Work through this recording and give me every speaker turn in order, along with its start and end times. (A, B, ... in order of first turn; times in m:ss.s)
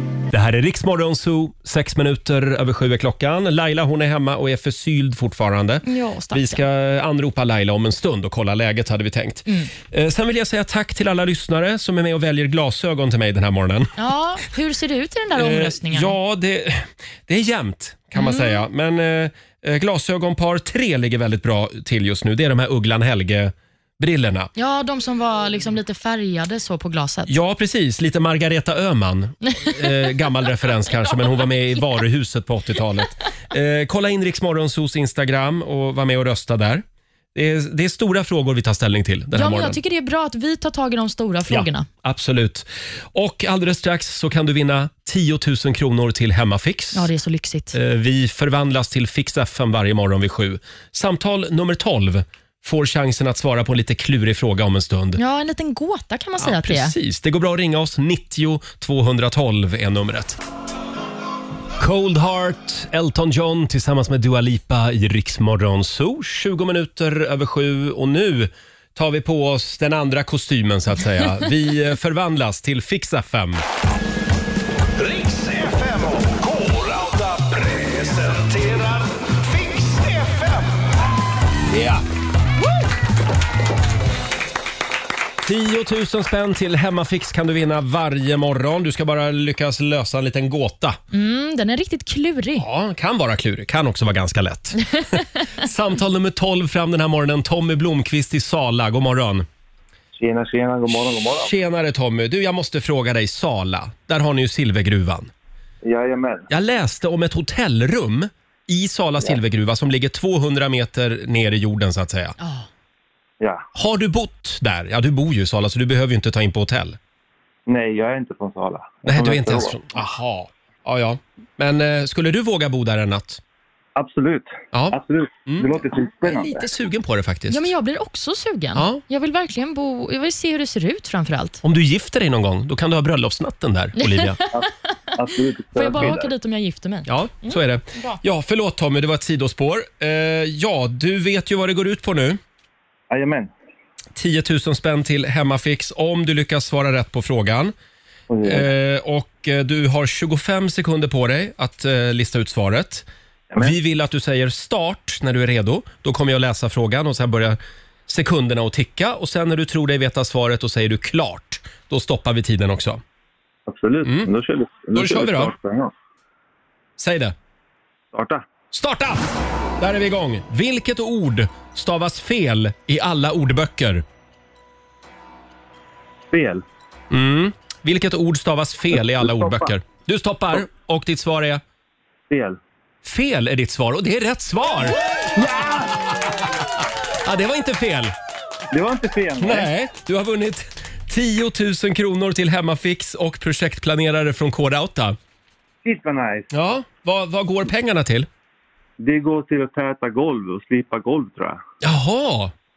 0:00.3-0:13.9 A
0:05.8-0:06.6 B
0:09.5-0:09.7 B
0:14.0-0:16.1 B
0:15.4-0:24.5 A
0:18.2-0:18.6 B
0:24.6-0:27.3 B
0:27.3-0:39.8 A
0:29.5-0:30.1 B
0:39.3-0:41.8 B
0:41.5-0:47.1 A
0:46.9-0:47.8 B
0:47.7-0:55.2 A
0:55.2-0:56.9 B
0:56.4-1:00.4 A
1:01.8-1:13.6 A
1:15.0-1:20.8 C
1:21.7-1:22.0 A
1:25.4-1:31.0 A
1:31.1-1:32.6 B
1:32.6-1:39.4 A
1:40.1-1:41.5 D
1:41.4-1:45.3 A
1:45.8-1:46.5 D
1:46.5-1:52.4 A
1:52.4-1:52.7 B
1:53.7-1:57.0 A
1:57.7-1:59.8 D
1:59.0-2:03.4 A
2:04.0-2:06.7 D
2:05.5-2:07.7 A
2:07.5-2:11.6 B
2:08.8-2:09.0 A
2:11.6-2:14.4 A
2:14.0-2:14.7 B
2:14.5-2:16.3 D
2:15.7-2:18.2 B
2:17.1-2:22.4 A
2:23.1-2:23.5 D
2:24.2-2:27.7 A
2:28.3-2:28.7 D
2:28.4-2:33.0 A
2:33.6-2:43.0 A
2:43.7-2:45.9 D
2:44.0-2:44.3 A
2:44.9-2:45.5 A
2:47.0-2:47.3 A
2:48.1-2:48.4 D
2:48.7-2:49.2 A
2:49.8-2:54.0 A
2:56.3-2:56.6 D
2:57.1-3:01.6 A
2:59.2-2:59.7 D
3:02.3-3:02.6 D
3:03.0-3:05.0 A
3:05.3-3:05.9 D
3:07.2-3:08.1 A
3:08.7-3:09.7 D
3:09.4-3:15.2 A
3:15.8-3:16.5 D
3:16.5-3:18.3 A
3:19.0-3:21.6 D
3:21.8-3:22.5 A